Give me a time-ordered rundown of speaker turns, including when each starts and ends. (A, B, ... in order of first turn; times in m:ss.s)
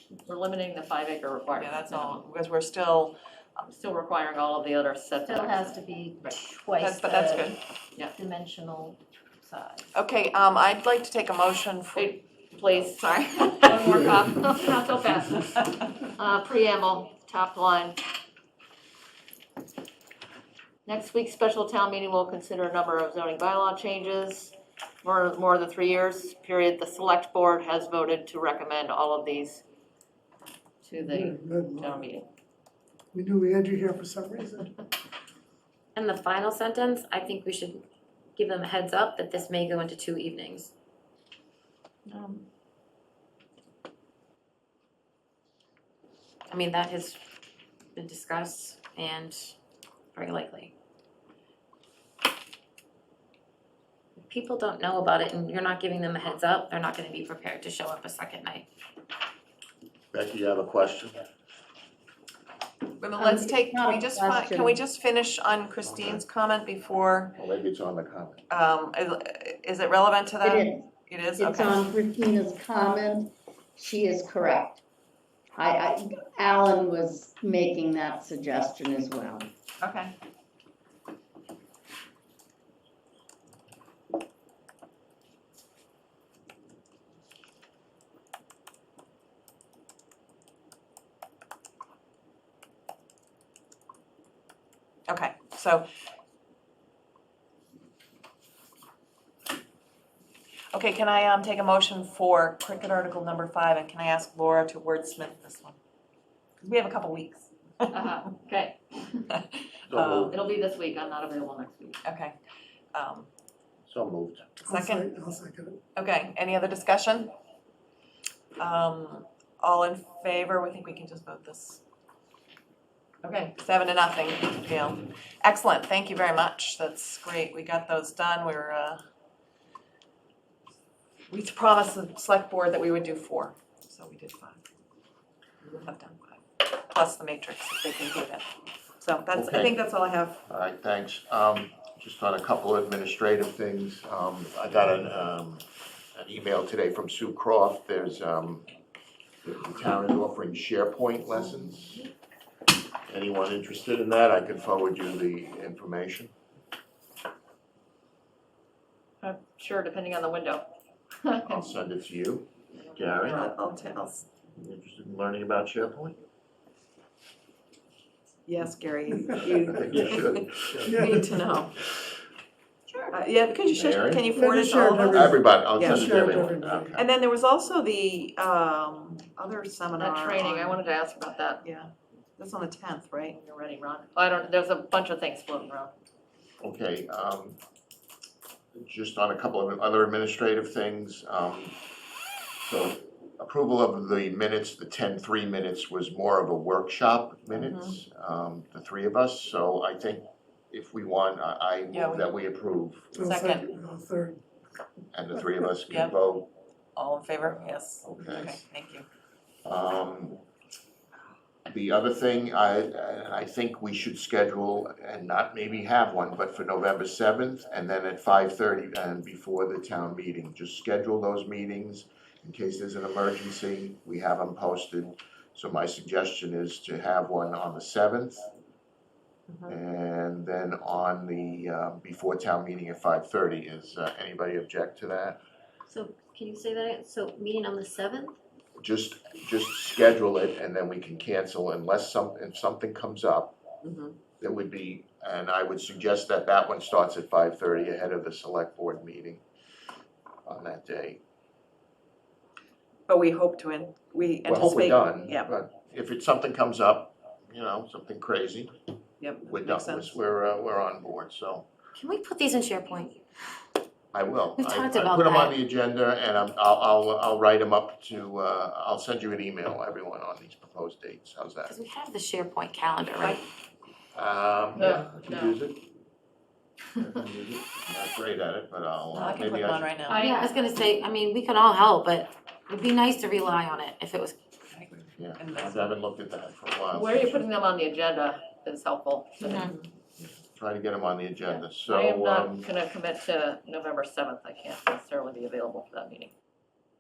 0:00.2-0:02.2 A
0:01.5-0:03.2 B
0:03.6-0:05.8 A
0:05.2-0:07.5 C
0:06.8-0:07.6 B
0:08.1-0:09.9 C
0:09.9-0:12.1 B
0:12.0-0:18.0 A
0:20.8-0:29.6 A
0:30.8-0:32.3 A
0:31.0-0:32.0 D
0:33.1-0:34.8 D
0:35.9-0:37.8 E
0:38.4-0:40.7 E
0:42.1-0:42.4 B
0:46.5-0:47.2 E
0:47.9-0:49.5 E
0:50.1-0:50.7 E
0:54.2-0:58.7 E
1:00.1-1:01.2 F
1:03.0-1:07.4 B
1:03.2-1:04.8 G
1:07.4-1:08.4 F
1:08.5-1:11.8 B
1:10.4-1:10.8 G
1:11.4-1:14.8 G
1:15.6-1:19.5 G
1:19.8-1:20.1 B
1:35.1-1:35.8 B
1:40.7-1:45.8 B
1:46.6-1:48.2 B
1:47.9-1:49.2 A
1:49.3-1:50.4 B
1:49.9-1:50.4 F
1:50.3-1:52.0 A
1:52.0-1:52.3 B
1:52.9-1:53.3 B
1:53.9-1:54.4 F
1:54.6-1:55.8 D
1:54.7-1:55.1 B
1:56.0-1:57.3 B
1:58.6-2:01.8 B
2:03.2-2:09.0 B
2:11.3-2:14.6 B
2:15.6-2:18.5 B
2:19.0-2:20.4 B
2:19.3-2:19.8 F
2:20.4-2:25.6 F
2:26.1-2:28.7 F
2:29.4-2:32.0 F
2:33.1-2:36.3 F
2:39.2-2:40.6 A
2:41.2-2:41.6 A
2:41.4-2:43.4 F
2:42.9-2:43.8 A
2:43.3-2:44.2 B
2:44.6-2:46.2 F
2:48.4-2:51.8 B
2:49.7-2:51.0 F
2:50.8-2:51.4 D
2:53.1-2:56.4 B
2:53.7-2:54.4 F
2:54.3-2:57.0 D
2:55.1-2:57.0 F
2:56.9-3:00.8 B
3:00.0-3:01.6 A
3:01.6-3:03.4 B
3:03.3-3:05.9 A
3:06.6-3:07.6 F
3:08.7-3:11.8 F
3:12.6-3:23.1 F
3:17.6-3:18.0 B
3:21.9-3:22.3 B
3:23.1-3:24.4 D
3:23.2-3:23.7 B
3:25.1-3:26.5 F
3:25.9-3:26.1 B
3:27.0-3:29.0 B
3:28.0-3:28.6 F
3:29.6-3:30.4 F
3:31.7-3:48.5 F
3:49.7-3:55.4 F
3:55.9-3:58.4 C
3:55.9-3:58.3 E
3:58.8-4:03.6 F
4:03.8-4:04.2 B
4:04.4-4:09.4 F
4:10.4-4:11.2 F
4:13.1-4:15.5 B
4:14.4-4:18.7 F
4:19.2-4:20.1 B
4:19.4-4:21.7 F
4:21.9-4:23.2 E
4:24.1-4:31.7 F
4:24.6-4:25.5 E
4:31.7-4:33.4 E
4:34.1-4:35.8 F
4:34.8-4:35.6 A
4:37.0-4:39.9 F
4:39.1-4:40.2 B
4:40.1-4:44.4 E
4:44.7-4:45.9 B
4:45.2-4:47.4 F
4:46.9-4:49.7 A
4:49.4-4:49.7 E
4:50.5-4:52.7 F
4:51.4-4:56.3 A